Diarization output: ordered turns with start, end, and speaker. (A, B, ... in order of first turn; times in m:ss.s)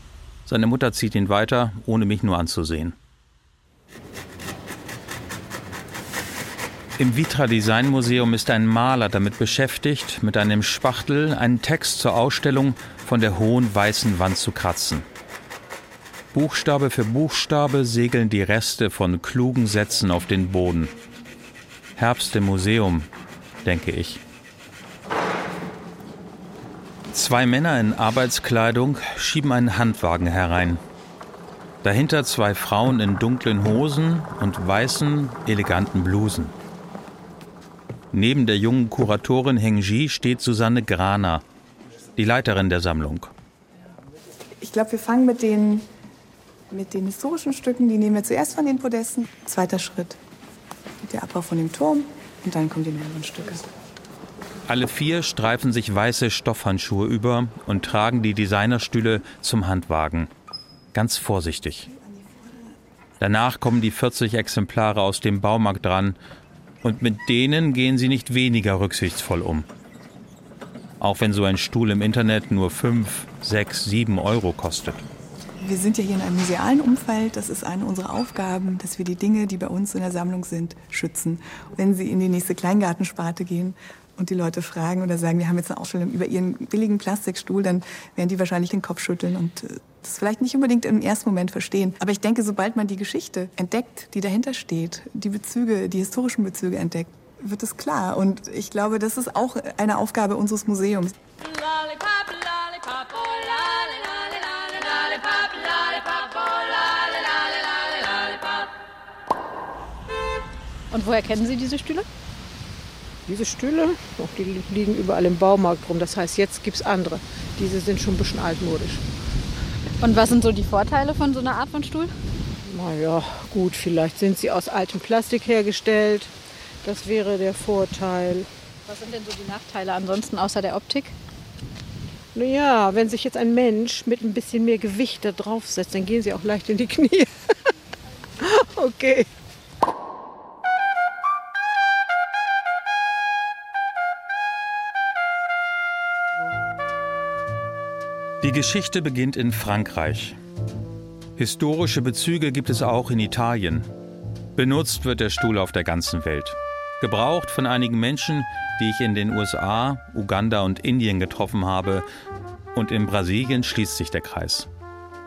0:00.4-0:03.0 A
0:07.0-0:15.0 A
0:16.3-0:20.9 A
0:22.0-0:23.1 A
0:23.6-0:24.2 A
0:27.1-0:30.8 A
0:31.8-0:36.5 A
0:38.1-0:41.4 A
0:42.2-0:43.3 A
0:44.6-0:45.8 B
0:46.7-0:50.2 B
0:51.0-0:53.6 B
0:54.7-1:00.3 A
1:00.9-1:01.9 A
1:02.0-1:02.7 B
1:03.2-1:06.2 A
1:06.8-1:09.7 A
1:11.0-1:15.0 A
1:15.6-1:41.1 B
1:50.9-1:52.0 C
1:53.3-1:59.0 D
2:00.0-2:02.1 C
2:02.7-2:06.3 D
2:06.8-2:08.5 D
2:08.9-2:11.1 C
2:12.3-2:17.3 D
2:18.4-2:19.3 D
2:28.4-2:30.4 A
2:31.4-2:33.9 A
2:34.6-2:42.0 A
2:42.7-2:44.7 A